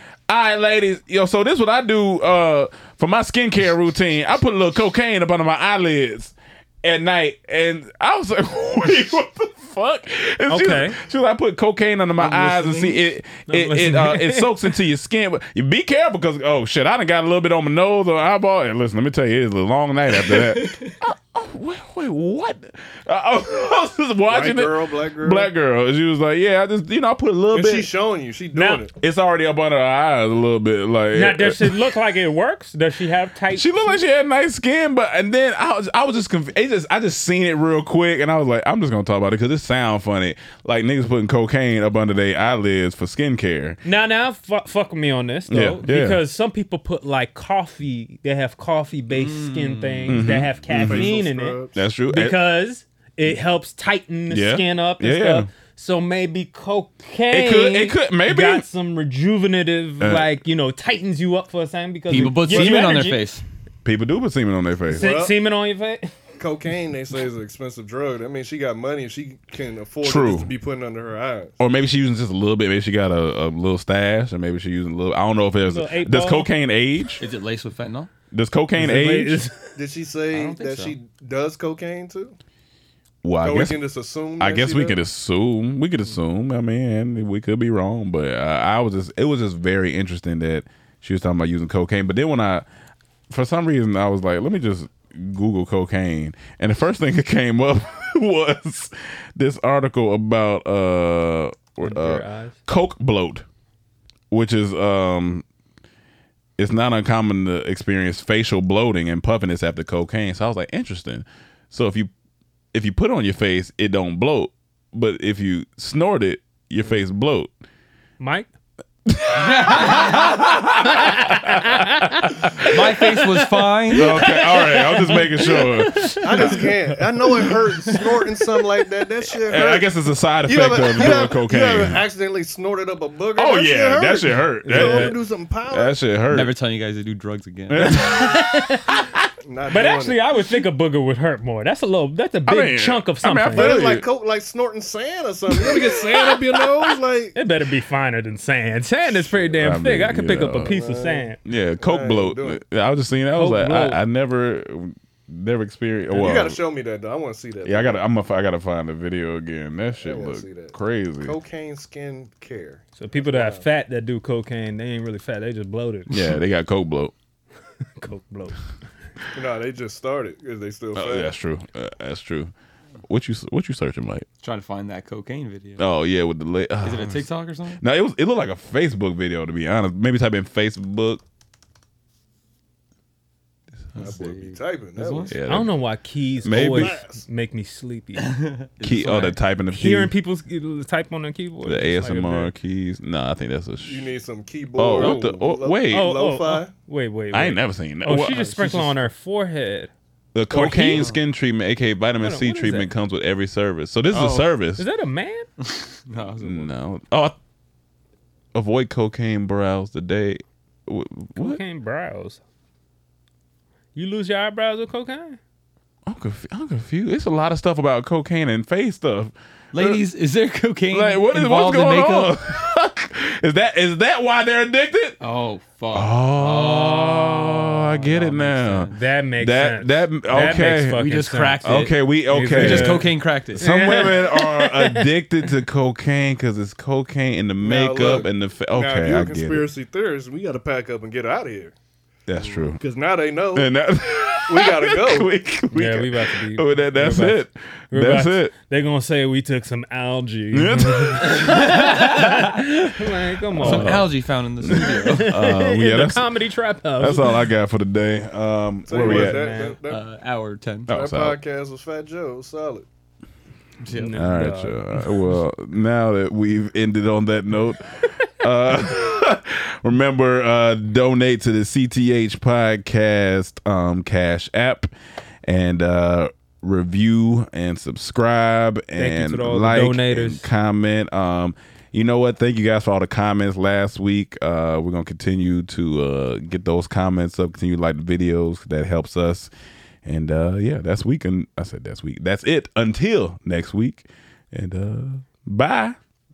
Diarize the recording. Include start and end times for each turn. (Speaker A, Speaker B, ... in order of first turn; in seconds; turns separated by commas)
Speaker A: 0.3-27.9, Speaker B: 10.5-11.0, Speaker C: 12.2-12.9, Speaker B: 13.5-14.7, Speaker C: 20.3-20.9, Speaker D: 24.3-25.5, Speaker D: 27.5-28.9, Speaker B: 28.5-28.8, Speaker A: 28.9-31.8, Speaker B: 31.1-34.0, Speaker A: 33.5-43.8, Speaker B: 43.8-63.2, Speaker A: 45.5-46.2, Speaker C: 49.1-50.3, Speaker A: 50.1-51.1, Speaker D: 50.7-51.8, Speaker A: 51.7-52.4, Speaker A: 54.3-55.5, Speaker A: 57.3-58.6, Speaker A: 60.0-60.4, Speaker C: 62.1-63.4, Speaker A: 62.1-62.6, Speaker A: 63.8-65.1, Speaker D: 64.9-65.3, Speaker B: 65.0-66.1, Speaker D: 66.4-71.5, Speaker A: 70.0-70.5, Speaker A: 71.6-77.2, Speaker B: 75.7-76.5, Speaker C: 77.2-78.1, Speaker A: 78.3-79.4, Speaker B: 78.7-79.7, Speaker D: 79.7-82.3, Speaker C: 80.3-81.0, Speaker A: 83.2-83.8, Speaker D: 83.4-85.0, Speaker A: 84.4-92.7, Speaker A: 93.3-103.4, Speaker B: 101.8-102.6, Speaker A: 104.3-105.4, Speaker A: 106.6-112.1, Speaker A: 112.7-117.5, Speaker B: 118.2-118.5, Speaker A: 119.1-122.2, Speaker C: 119.4-120.4, Speaker B: 120.8-126.9, Speaker C: 122.6-124.1, Speaker A: 123.9-126.4, Speaker D: 126.2-129.9, Speaker C: 127.8-128.3, Speaker A: 129.5-132.0, Speaker D: 130.4-136.0, Speaker A: 133.4-136.5, Speaker B: 134.7-135.1, Speaker C: 136.3-138.0, Speaker A: 137.7-139.2, Speaker B: 137.9-138.9, Speaker D: 139.4-140.2, Speaker B: 139.7-143.8, Speaker A: 142.4-144.1, Speaker D: 143.5-147.3, Speaker A: 145.6-146.0, Speaker B: 147.3-151.4, Speaker A: 149.5-150.7, Speaker D: 150.7-152.6, Speaker A: 151.4-156.6, Speaker B: 153.3-154.0, Speaker D: 156.1-158.0, Speaker A: 157.6-161.4, Speaker D: 159.9-163.6, Speaker B: 163.0-166.1, Speaker A: 166.1-167.1, Speaker B: 168.0-168.6, Speaker D: 169.3-171.3, Speaker A: 170.9-172.5, Speaker A: 173.0-174.2, Speaker C: 174.4-175.9, Speaker A: 175.8-177.3, Speaker C: 176.8-177.8, Speaker A: 177.8-181.2, Speaker C: 183.9-185.3, Speaker D: 183.9-185.4, Speaker A: 185.3-185.7, Speaker B: 185.4-188.3, Speaker A: 186.4-187.0, Speaker D: 186.4-187.2, Speaker C: 188.2-189.3, Speaker A: 188.8-190.1, Speaker B: 189.7-192.5, Speaker A: 191.6-194.1, Speaker D: 193.8-196.7, Speaker A: 194.8-196.1, Speaker B: 195.9-199.9, Speaker A: 197.3-198.9, Speaker C: 198.5-198.9, Speaker A: 200.3-204.8, Speaker B: 200.5-201.1, Speaker C: 200.8-201.2, Speaker B: 202.2-202.9, Speaker C: 204.1-204.5, Speaker B: 204.8-205.5, Speaker C: 205.6-206.7, Speaker A: 206.4-207.3, Speaker A: 208.5-211.6, Speaker B: 211.3-212.4, Speaker B: 213.9-215.4, Speaker A: 216.1-220.0, Speaker C: 219.7-222.5, Speaker A: 220.9-225.2, Speaker C: 225.2-229.0, Speaker A: 225.9-239.7, Speaker B: 228.9-235.1, Speaker C: 230.4-233.7, Speaker D: 237.6-241.7, Speaker A: 242.3-242.8, Speaker D: 242.4-243.7, Speaker A: 243.6-248.5, Speaker D: 244.5-245.3, Speaker B: 245.7-254.0, Speaker A: 250.5-251.4, Speaker A: 253.5-256.3, Speaker C: 253.6-255.3, Speaker B: 254.7-257.4, Speaker A: 257.0-259.4, Speaker D: 258.9-260.0, Speaker B: 259.0-259.8, Speaker C: 259.9-260.9, Speaker A: 260.9-261.4, Speaker D: 260.9-262.9, Speaker C: 263.8-264.3, Speaker B: 263.9-265.1, Speaker A: 264.1-274.9, Speaker A: 275.4-289.5, Speaker B: 278.9-280.5, Speaker A: 290.1-296.0